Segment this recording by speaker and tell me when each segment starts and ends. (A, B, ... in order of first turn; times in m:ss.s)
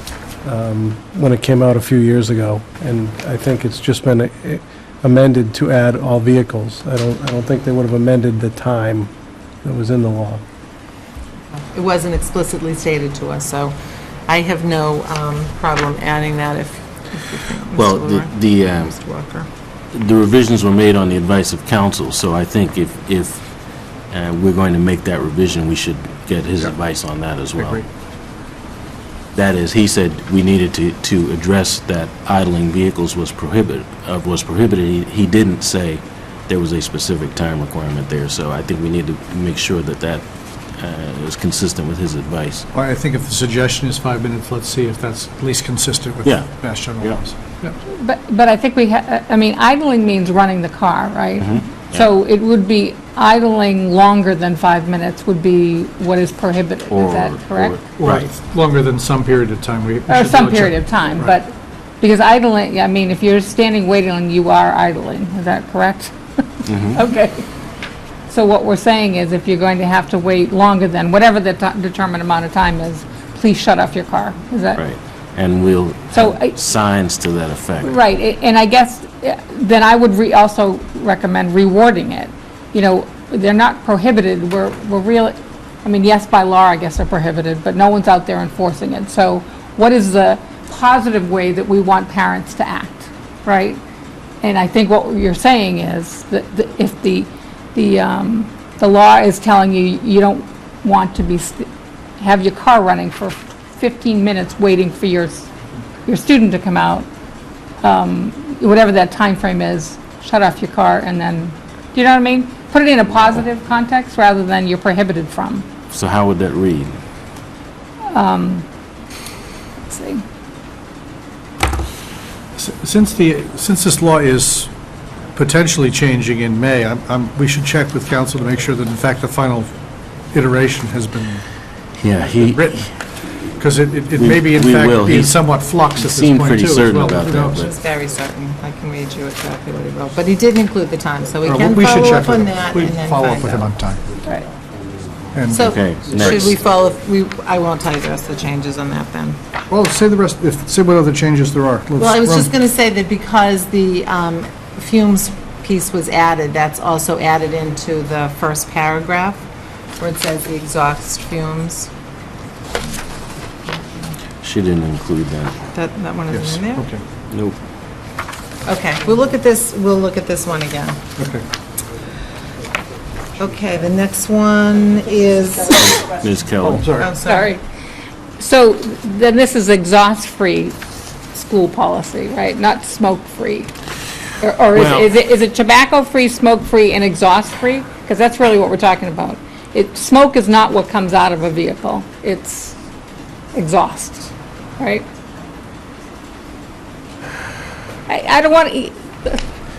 0:00.4-0:09.1 A
0:09.6-0:10.4 A
0:11.7-0:13.7 B
0:14.3-0:19.5 B
0:17.8-0:18.9 C
0:19.9-0:23.4 C
0:24.1-0:27.8 C
0:27.6-0:27.8 D
0:29.3-0:40.2 C
0:40.7-0:42.6 C
0:42.7-0:47.7 D
0:46.2-0:47.2 C
0:47.9-0:57.8 E
0:51.4-0:52.1 C
0:56.9-0:58.3 C
0:58.0-1:01.3 D
1:00.1-1:06.1 E
1:06.6-1:07.0 C
1:06.8-1:07.4 E
1:08.3-1:14.8 E
1:14.7-1:17.9 C
1:16.1-1:16.5 E
1:17.8-1:33.8 E
1:34.4-1:41.6 E
1:42.2-1:45.5 E
1:46.0-1:47.1 E
1:47.8-1:55.6 E
1:55.9-1:57.0 C
1:58.1-1:58.6 E
1:59.9-2:00.2 E
2:02.6-2:04.7 D
2:05.3-2:09.7 D
2:10.3-2:11.4 D
2:12.0-2:12.9 C
2:12.4-2:12.9 D
2:13.4-2:17.6 D
2:14.2-2:15.4 C
2:16.0-2:17.7 C
2:17.6-2:23.7 B
2:21.4-2:24.0 D
2:25.3-2:25.7 D
2:25.5-2:29.4 B
2:25.6-2:26.6 C
2:29.7-2:32.5 D
2:32.0-2:39.4 B
2:40.0-2:41.9 B
2:43.7-2:44.1 B
2:44.4-2:45.6 C
2:45.7-2:46.9 B
2:46.3-2:47.0 D
2:47.3-2:47.6 C
2:48.6-2:51.0 B
2:51.2-2:51.4 D
2:53.4-2:56.1 B
2:55.8-2:56.9 C
2:56.6-2:57.1 D
2:57.0-2:57.5 B
2:57.2-2:57.6 E
2:58.4-3:00.8 E
3:01.3-3:03.7 E
3:04.4-3:12.7 E
3:04.7-3:05.1 C
3:13.5-3:15.1 E
3:18.1-3:19.4 E